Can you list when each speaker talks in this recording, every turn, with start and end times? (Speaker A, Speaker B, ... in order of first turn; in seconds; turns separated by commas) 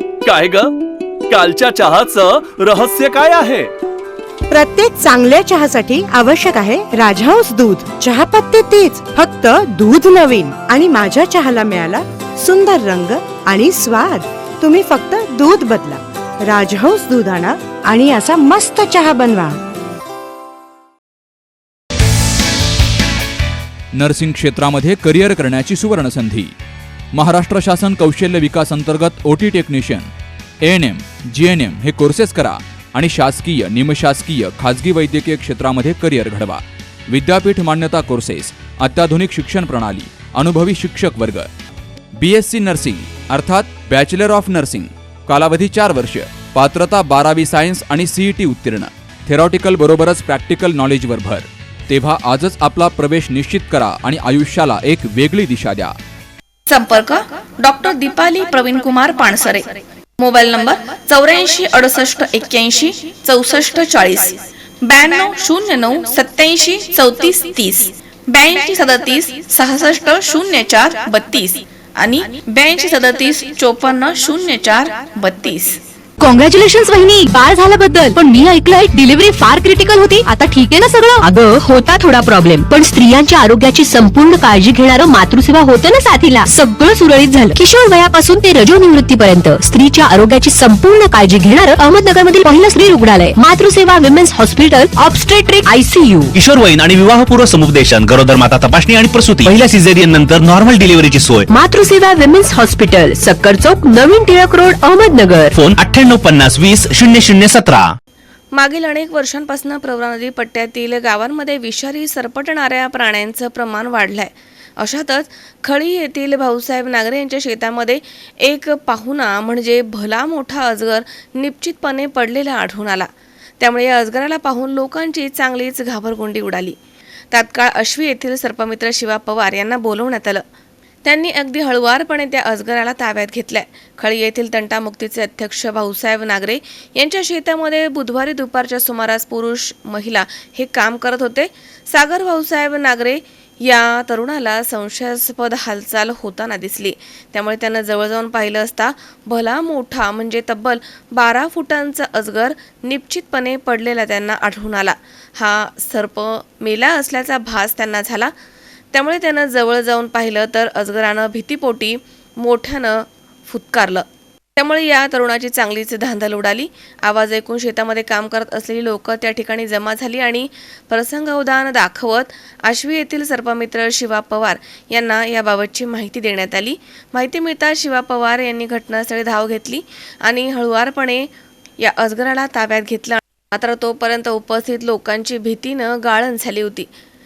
Speaker A: 0.2-0.7, Speaker A: 1.3-3.7, Speaker B: 4.5-19.6, Speaker C: 23.9-26.5, Speaker C: 27.1-30.1, Speaker C: 30.6-41.5, Speaker C: 42.2-55.9, Speaker D: 56.7-59.7, Speaker D: 60.2-75.8, Speaker E: 76.2-96.3, Speaker F: 96.3-101.5, Speaker E: 101.5-105.5, Speaker F: 105.5-107.9, Speaker D: 108.5-126.8, Speaker D: 127.3-130.4, Speaker D: 131.1-158.3, Speaker D: 158.9-164.1, Speaker D: 164.6-181.3, Speaker D: 181.8-186.9